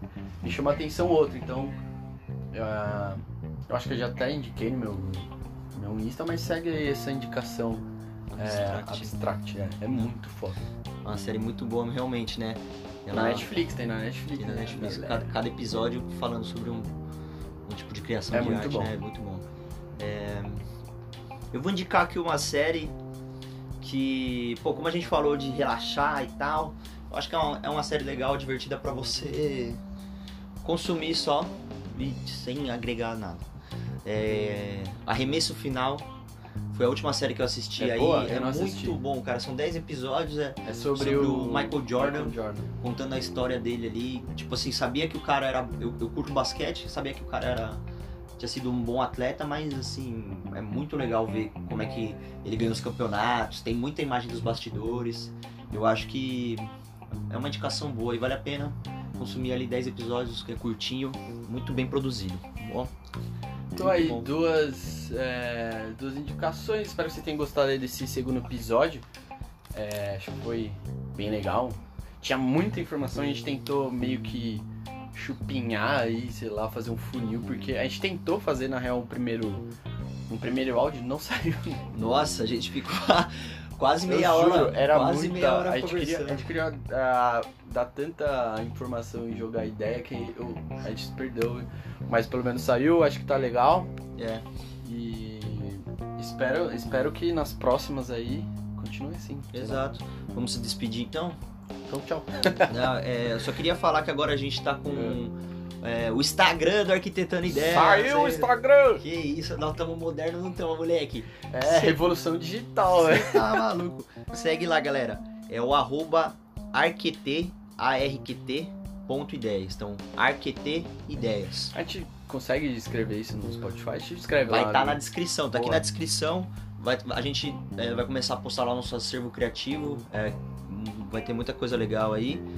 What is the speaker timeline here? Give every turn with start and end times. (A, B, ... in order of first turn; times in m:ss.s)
0:00.4-0:01.8 A
0:02.5-0:10.6 A
0:08.3-0:09.1 B
0:11.0-0:13.5 B
0:13.1-0:15.3 A
0:14.4-0:16.9 B
0:17.6-0:19.4 B
0:18.3-0:18.9 A
0:20.0-0:20.6 B
0:21.5-0:22.9 B
0:23.8-0:29.8 B
0:30.6-0:33.5 B
0:34.0-0:36.1 B
0:36.7-0:47.8 B
0:37.8-0:39.0 A
0:40.6-0:42.7 A
0:48.4-0:56.7 B
0:57.3-1:02.9 B
1:03.7-1:09.0 A
1:03.8-1:04.3 B
1:09.7-1:19.7 A
1:20.3-1:21.8 A
1:21.9-1:26.5 B
1:24.1-1:33.9 A
1:34.2-1:34.4 B
1:34.8-1:39.8 A
1:39.5-1:41.4 B
1:41.9-1:42.9 A
1:42.7-1:52.0 B
1:44.9-1:45.2 A
1:47.5-1:49.0 A
1:51.5-1:53.6 A
1:52.9-2:01.7 B
2:01.7-2:05.8 A
2:04.5-2:12.4 B